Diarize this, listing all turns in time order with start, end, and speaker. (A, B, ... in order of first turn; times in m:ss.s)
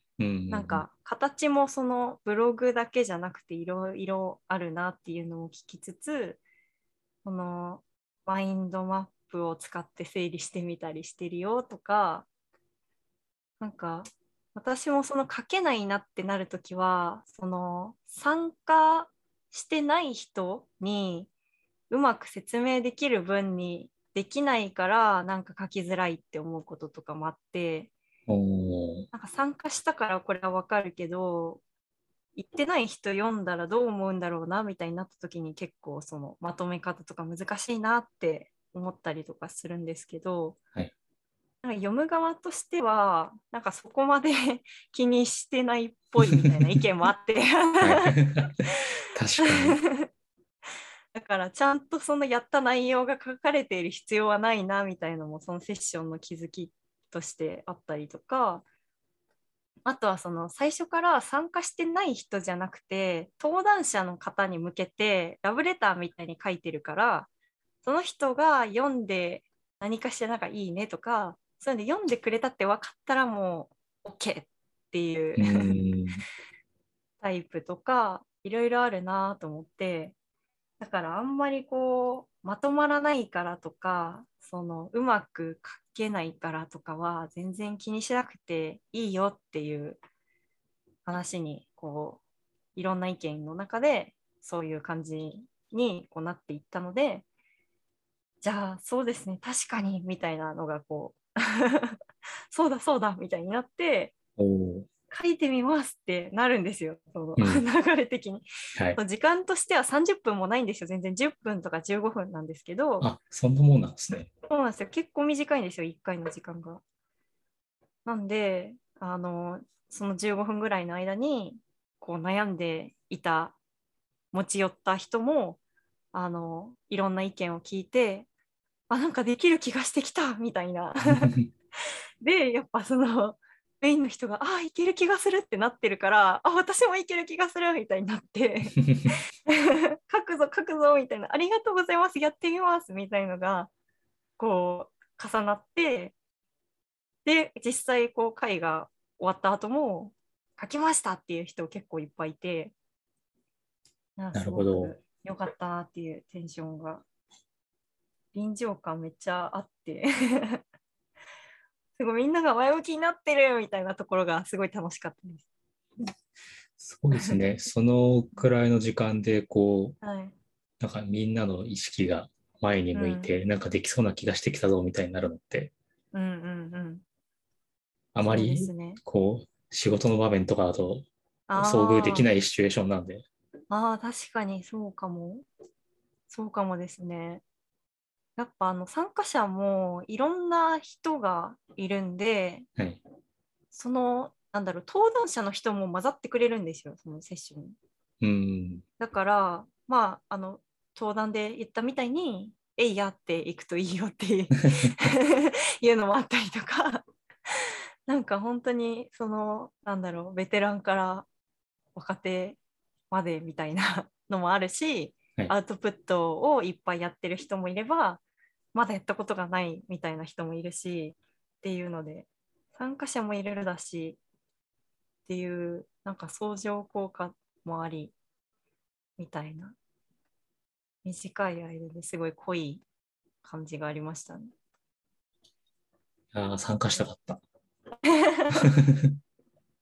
0:00.2-0:00.9 A
0:00.5-0:06.4 B
0:07.2-0:12.3 B
0:13.6-0:21.3 B
0:21.9-0:27.9 B
0:28.3-0:29.1 A
0:29.1-0:31.6 B
0:32.4-0:40.6 B
0:41.6-0:48.2 B
0:46.3-0:46.6 A
0:47.8-0:49.8 A
0:49.4-0:50.1 B
0:51.1-0:58.6 B
0:59.9-1:07.3 B
1:07.8-1:15.7 B
1:15.4-1:16.2 A
1:17.2-1:20.2 B
1:20.8-1:30.0 B
1:31.0-1:32.2 B
1:32.8-1:37.2 B
1:38.4-1:42.0 B
1:42.5-1:44.1 B
1:44.4-1:44.9 A
1:45.1-1:53.1 B
1:47.4-1:47.6 A
1:53.0-1:54.3 A
1:54.5-1:56.8 B
1:58.0-2:03.6 B
2:04.3-2:05.6 B
2:06.1-2:08.3 B
2:08.9-2:11.4 B
2:12.2-2:18.8 B
2:18.8-2:19.1 A
2:19.5-2:23.7 B
2:24.4-2:26.1 B
2:27.2-2:32.7 B
2:34.2-2:37.0 B
2:34.3-2:34.9 A
2:38.3-2:40.6 B
2:42.0-2:45.4 B
2:46.8-2:50.0 A
2:47.1-2:47.4 B
2:50.0-2:50.3 B
2:50.8-2:55.7 A
2:52.9-2:53.3 B
2:56.1-2:57.0 B
2:58.2-3:03.3 A
2:58.2-2:59.0 B
3:01.5-3:02.3 B
3:03.7-3:05.5 B
3:06.3-3:07.4 B
3:08.4-3:12.7 B
3:12.8-3:13.0 A
3:13.7-3:17.8 B
3:18.2-3:18.8 A
3:19.0-3:27.0 B
3:27.6-3:31.3 B
3:32.0-3:32.6 B
3:33.1-3:38.2 B
3:38.7-3:44.2 B
3:45.3-3:48.1 B
3:49.2-3:49.8 B
3:51.0-3:52.8 B
3:53.4-3:54.5 B
3:56.3-3:57.4 A
3:58.0-3:58.7 B
3:58.5-3:59.2 A